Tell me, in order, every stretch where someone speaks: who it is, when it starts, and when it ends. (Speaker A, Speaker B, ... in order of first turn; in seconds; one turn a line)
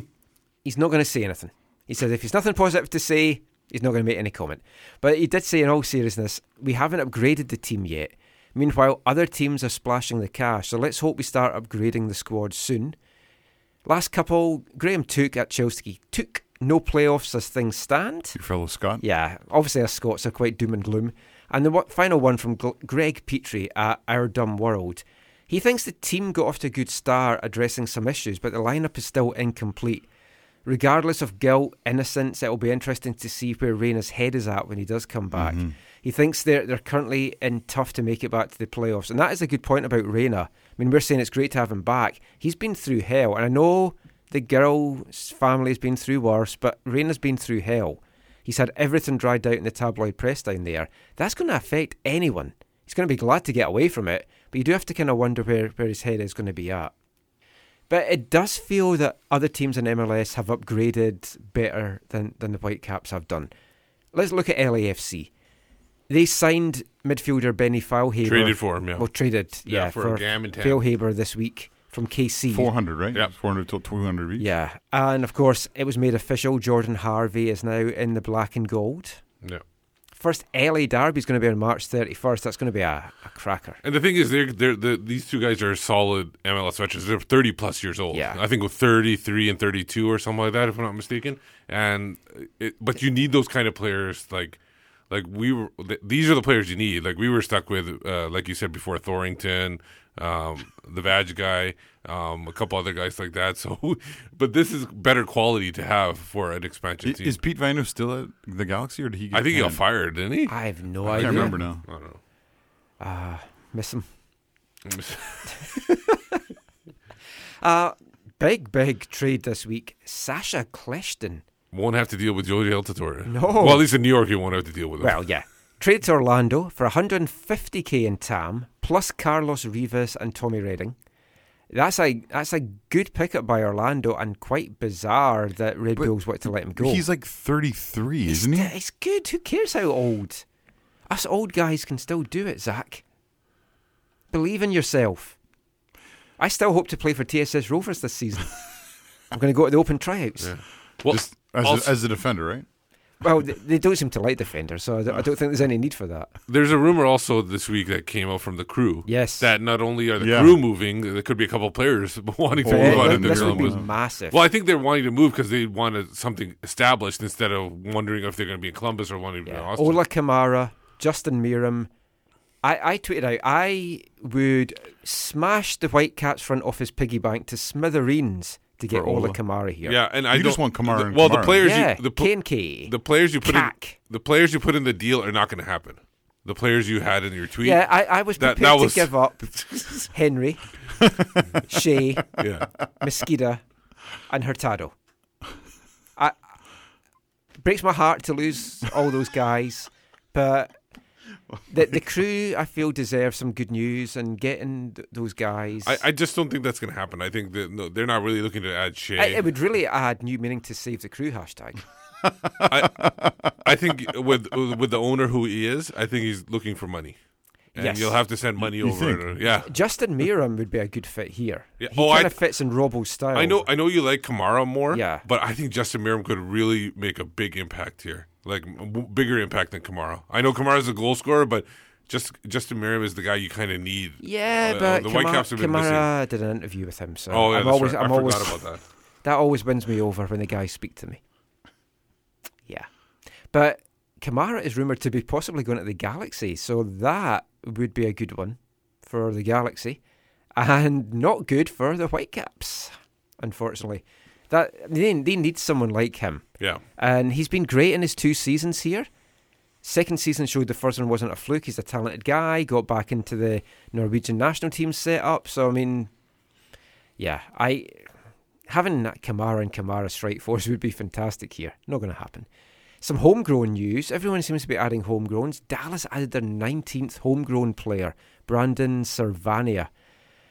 Speaker A: 0.6-12.9
Speaker A: 13.8-18.4
Speaker B: 18.3-19.0
Speaker A: 19.0-30.1
Speaker A: 30.6-56.9
Speaker B: 35.3-35.7
Speaker A: 57.9-63.5
Speaker A: 64.1-65.3
Speaker A: 66.1-72.7
Speaker C: 68.2-69.0
Speaker C: 69.7-70.8
Speaker B: 72.5-74.5
Speaker A: 74.4-79.2
Speaker A: 80.2-83.8
Speaker C: 83.8-94.6
Speaker A: 88.1-88.4
Speaker C: 95.1-107.4
Speaker B: 107.0-109.8
Speaker C: 109.3-112.2
Speaker A: 110.5-111.5
Speaker B: 111.2-111.8
Speaker A: 113.0-114.0
Speaker C: 114.8-115.5
Speaker A: 115.5-116.4
Speaker A: 117.6-121.4
Speaker C: 121.7-125.2
Speaker A: 123.3-123.8
Speaker A: 125.0-130.9
Speaker A: 131.7-137.0
Speaker B: 136.7-138.7
Speaker A: 138.3-140.4
Speaker A: 141.1-143.0
Speaker A: 144.3-145.3
Speaker A: 146.4-148.5
Speaker A: 149.3-150.5
Speaker C: 150.4-151.9
Speaker B: 151.1-152.7
Speaker A: 153.2-156.3
Speaker C: 156.5-170.0
Speaker A: 159.1-159.5
Speaker B: 160.2-160.6
Speaker B: 162.6-163.8
Speaker A: 162.6-164.4
Speaker A: 169.4-171.9
Speaker A: 172.6-180.0
Speaker B: 178.9-179.4
Speaker C: 179.8-182.3
Speaker B: 180.3-181.6
Speaker A: 181.6-184.0
Speaker C: 182.8-190.1
Speaker A: 187.6-189.5
Speaker A: 190.1-190.7
Speaker A: 191.6-192.3
Speaker C: 192.4-192.7
Speaker A: 193.0-193.6
Speaker A: 194.3-194.9
Speaker A: 197.6-200.7
Speaker A: 201.7-206.0
Speaker C: 205.8-209.5
Speaker A: 209.2-211.8
Speaker B: 212.6-213.3
Speaker C: 212.7-213.0
Speaker C: 213.6-217.2
Speaker C: 217.7-219.7
Speaker A: 217.8-218.2
Speaker B: 218.6-219.2
Speaker A: 219.6-223.6
Speaker C: 221.8-222.4
Speaker C: 223.3-236.1
Speaker A: 224.9-225.2
Speaker A: 234.2-238.6
Speaker C: 237.3-238.8
Speaker A: 239.2-241.2
Speaker A: 243.5-250.0
Speaker A: 250.6-256.4
Speaker A: 257.0-259.1
Speaker A: 259.8-266.1
Speaker A: 267.2-268.1
Speaker A: 268.7-272.5
Speaker A: 273.0-279.9